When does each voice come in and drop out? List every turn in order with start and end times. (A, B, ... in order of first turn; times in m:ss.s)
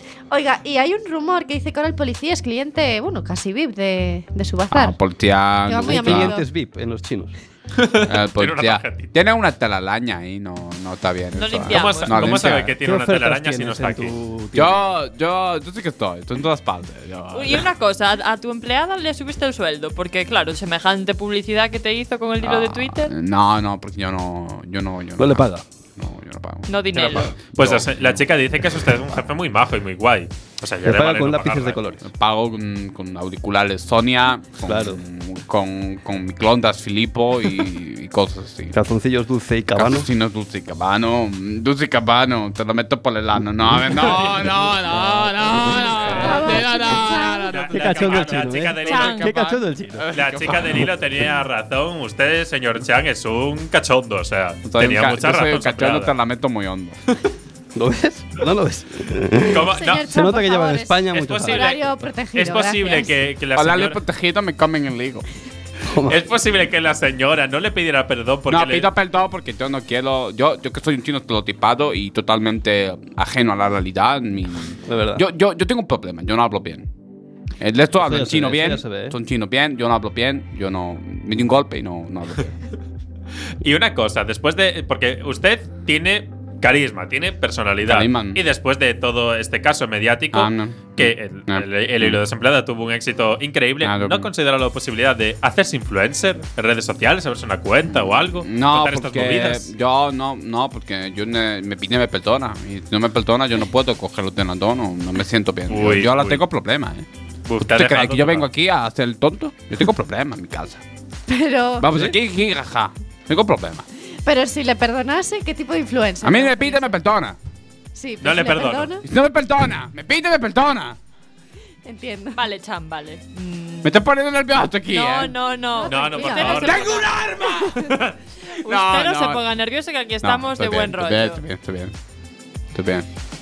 0:00.3-0:05.0 A
0:04.7-0:06.4 B
0:05.7-0:06.4 A
0:05.8-0:07.3 C
0:07.7-0:09.1 D
0:08.0-0:12.8 B
0:11.3-0:12.3 E
0:11.7-0:14.2 D
0:12.8-0:14.8 C
0:14.5-0:17.7 B
0:17.3-0:23.1 E
0:22.4-0:28.2 B
0:25.2-0:25.6 C
0:26.7-0:27.3 E
0:27.5-0:31.8 D
0:30.8-0:32.0 C
0:32.0-0:38.8 B
0:34.6-0:35.0 C
0:38.7-0:40.1 C
0:39.7-0:50.8 B
0:43.7-0:46.6 C
0:46.0-0:46.4 D
0:46.2-0:47.5 A
0:47.5-0:49.2 D
0:47.7-0:50.7 C
0:48.8-0:49.3 E
0:50.1-0:56.1 D
0:54.6-0:57.0 B
0:57.7-1:01.9 C
0:59.5-1:00.1 D
0:59.8-1:03.2 A
1:01.1-1:04.0 D
1:03.6-1:05.2 B
1:05.9-1:06.2 C
1:06.1-1:08.9 D
1:08.5-1:16.9 B
1:14.8-1:15.2 C
1:17.6-1:22.5 B
1:18.0-1:19.2 C
1:23.6-1:39.7 D
1:27.9-1:28.4 B
1:30.3-1:32.2 B
1:33.8-1:34.3 B
1:37.9-1:47.1 B
1:45.7-1:46.4 D
1:47.5-1:48.5 D
1:47.7-1:50.8 B
1:51.3-1:51.9 A
1:51.8-1:53.8 B
1:54.2-1:57.0 A
1:56.2-1:57.4 B
1:57.9-1:59.1 A
1:58.2-1:58.9 D
1:59.0-2:01.0 B
2:01.8-2:02.4 A
2:02.3-2:04.0 E
2:03.8-2:05.3 B
2:04.9-2:07.0 E
2:05.8-2:07.0 A
2:05.9-2:07.1 D
2:06.6-2:07.9 B
2:07.6-2:08.0 A
2:08.6-2:11.4 E
2:08.6-2:09.4 B
2:10.2-2:11.9 B
2:12.7-2:13.1 B